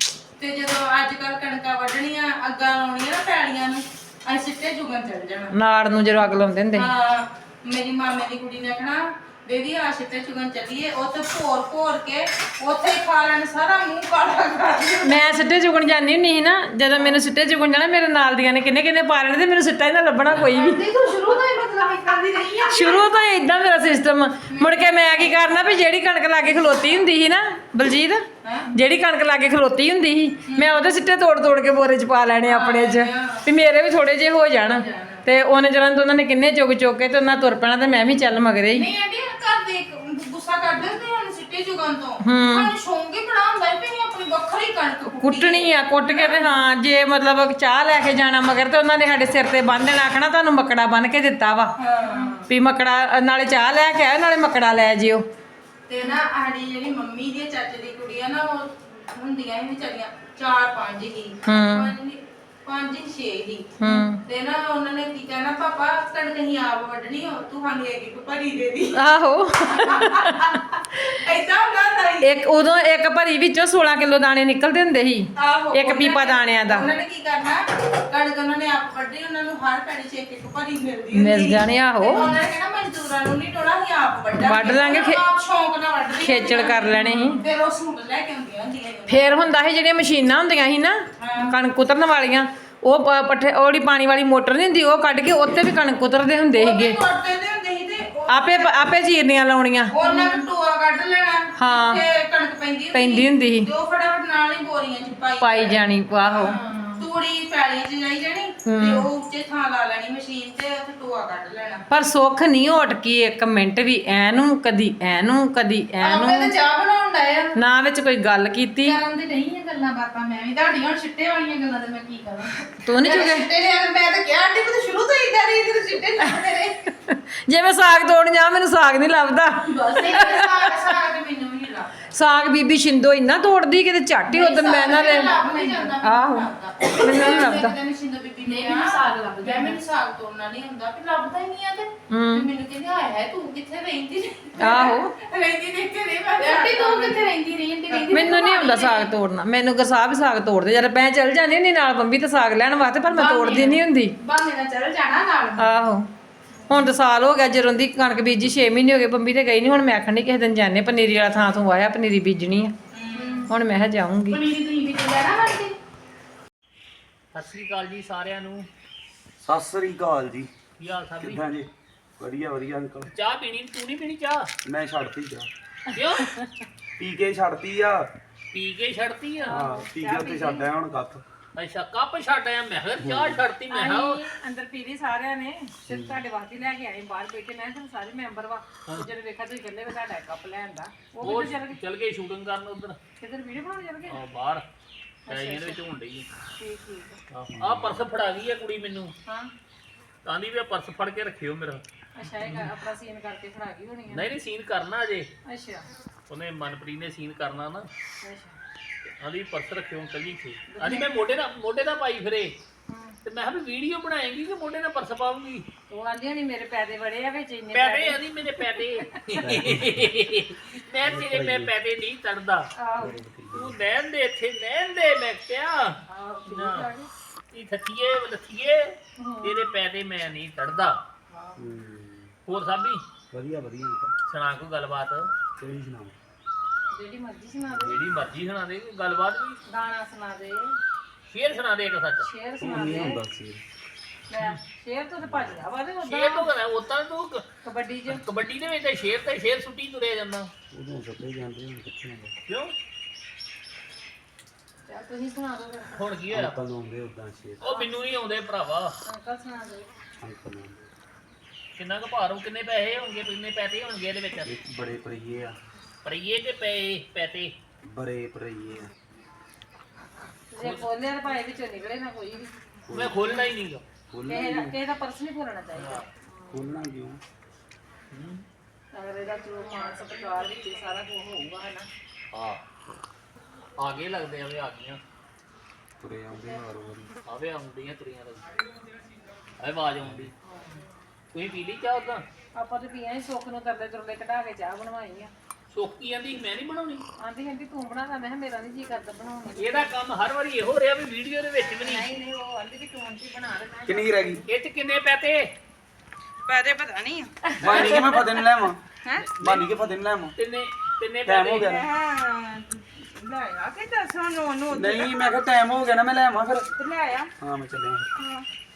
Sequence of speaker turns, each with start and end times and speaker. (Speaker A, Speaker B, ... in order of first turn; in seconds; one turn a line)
Speaker A: 0.4-5.5
Speaker B: 5.5-6.9
Speaker A: 6.7-15.1
Speaker B: 15.0-20.8
Speaker A: 16.9-17.2
Speaker C: 20.5-23.1
Speaker B: 22.7-38.9
Speaker A: 24.5-25.8
Speaker A: 26.4-27.0
Speaker A: 28.4-28.7
Speaker A: 30.5-30.8
Speaker A: 32.5-33.5
Speaker A: 34.6-35.2
Speaker A: 38.7-46.5
Speaker B: 42.2-42.7
Speaker B: 45.2-51.7
Speaker A: 51.8-52.4
Speaker C: 52.1-52.4
Speaker B: 52.5-55.2
Speaker A: 55.9-63.7
Speaker B: 61.5-61.9
Speaker B: 63.8-64.2
Speaker A: 64.2-69.0
Speaker B: 69.0-70.5
Speaker A: 69.7-72.3
Speaker B: 72.2-76.9
Speaker A: 75.3-89.6
Speaker B: 81.1-82.3
Speaker B: 84.4-85.2
Speaker B: 86.2-87.4
Speaker C: 87.0-87.3
Speaker B: 89.1-97.0
Speaker A: 91.2-91.5
Speaker A: 96.5-98.8
Speaker B: 98.3-100.0
Speaker A: 99.9-111.8
Speaker C: 100.0-100.5
Speaker B: 101.6-102.0
Speaker B: 102.9-103.7
Speaker B: 105.4-106.6
Speaker C: 106.6-107.0
Speaker B: 108.7-109.0
Speaker B: 111.9-116.5
Speaker C: 116.0-117.5
Speaker B: 117.5-119.0
Speaker C: 118.9-126.7
Speaker B: 122.8-123.5
Speaker B: 126.9-130.7
Speaker A: 129.7-131.9
Speaker C: 129.7-130.4
Speaker B: 132.1-135.3
Speaker A: 134.3-147.3
Speaker C: 135.2-136.0
Speaker B: 136.0-137.7
Speaker C: 138.4-139.8
Speaker B: 142.1-142.5
Speaker B: 144.6-145.1
Speaker C: 146.3-149.1
Speaker B: 148.1-154.1
Speaker C: 153.1-155.8
Speaker B: 155.6-156.1
Speaker B: 156.7-162.7
Speaker A: 162.9-163.4
Speaker C: 163.1-163.5
Speaker B: 163.5-164.4
Speaker C: 164.3-165.8
Speaker D: 167.3-168.7
Speaker E: 169.4-170.5
Speaker D: 170.8-171.4
Speaker E: 171.2-173.1
Speaker D: 173.1-174.5
Speaker E: 174.6-175.5
Speaker D: 175.9-176.3
Speaker B: 176.2-176.5
Speaker E: 177.0-178.1
Speaker D: 178.5-179.5
Speaker E: 179.4-181.2
Speaker B: 179.4-180.7
Speaker D: 181.6-184.2
Speaker E: 183.0-183.4
Speaker B: 183.7-191.8
Speaker E: 185.9-186.2
Speaker D: 191.2-193.0
Speaker B: 193.2-194.2
Speaker D: 194.1-194.6
Speaker B: 195.2-195.8
Speaker D: 195.3-196.3
Speaker B: 196.6-197.2
Speaker D: 197.3-199.1
Speaker E: 197.5-198.0
Speaker D: 200.2-201.8
Speaker B: 202.2-204.3
Speaker D: 202.4-202.7
Speaker D: 204.1-205.3
Speaker B: 205.4-205.8
Speaker D: 206.3-207.9
Speaker B: 208.2-208.6
Speaker D: 209.2-212.5
Speaker B: 210.7-211.1
Speaker B: 212.9-213.2
Speaker D: 213.2-215.7
Speaker B: 215.9-219.2
Speaker D: 217.7-222.7
Speaker E: 219.4-220.1
Speaker E: 221.0-221.7
Speaker B: 222.8-223.2
Speaker E: 223.0-223.8
Speaker D: 223.5-226.9
Speaker B: 226.1-227.1
Speaker D: 227.5-231.0
Speaker B: 229.2-229.7
Speaker B: 231.3-231.6
Speaker E: 231.6-232.3
Speaker D: 232.4-233.0
Speaker E: 233.3-234.1
Speaker D: 234.3-235.3
Speaker E: 235.6-236.2
Speaker B: 236.9-238.0
Speaker D: 237.8-239.6
Speaker B: 239.7-240.8
Speaker D: 241.3-242.3
Speaker B: 242.2-243.2
Speaker E: 242.6-243.6
Speaker B: 244.3-246.5
Speaker E: 245.3-245.6
Speaker D: 246.0-247.4
Speaker B: 247.6-248.2
Speaker D: 248.1-250.5
Speaker E: 250.7-252.3
Speaker D: 252.5-252.7
Speaker B: 254.9-256.1
Speaker D: 255.9-256.6
Speaker E: 256.3-257.6
Speaker D: 257.6-258.9
Speaker B: 257.6-257.9
Speaker B: 259.0-259.9
Speaker E: 260.2-260.9
Speaker D: 261.8-264.5
Speaker E: 264.4-265.6
Speaker D: 266.0-267.5
Speaker E: 267.8-268.9
Speaker B: 270.5-272.5
Speaker D: 270.6-270.9
Speaker E: 272.9-273.2
Speaker D: 272.9-273.8
Speaker E: 274.1-274.8
Speaker B: 274.3-276.6
Speaker D: 275.8-276.0
Speaker E: 276.5-277.2
Speaker D: 278.1-278.4
Speaker B: 278.9-281.9
Speaker D: 282.3-282.6
Speaker D: 283.8-285.0
Speaker E: 286.0-287.1
Speaker D: 287.2-288.5
Speaker D: 289.6-290.3
Speaker E: 290.0-290.3
Speaker B: 290.4-290.8
Speaker D: 291.3-292.2
Speaker B: 292.6-295.3
Speaker D: 295.7-297.0
Speaker B: 297.2-299.9
Speaker D: 299.5-302.1
Speaker B: 301.8-304.5
Speaker E: 303.9-304.4
Speaker D: 304.5-305.5
Speaker A: 306.4-308.1
Speaker E: 307.6-308.8
Speaker D: 307.6-307.9
Speaker D: 309.2-309.7
Speaker E: 309.4-310.3
Speaker D: 310.4-311.7
Speaker E: 311.2-311.9
Speaker A: 311.6-315.3
Speaker E: 314.7-316.7
Speaker A: 316.8-317.3
Speaker E: 317.4-318.1
Speaker A: 318.2-318.5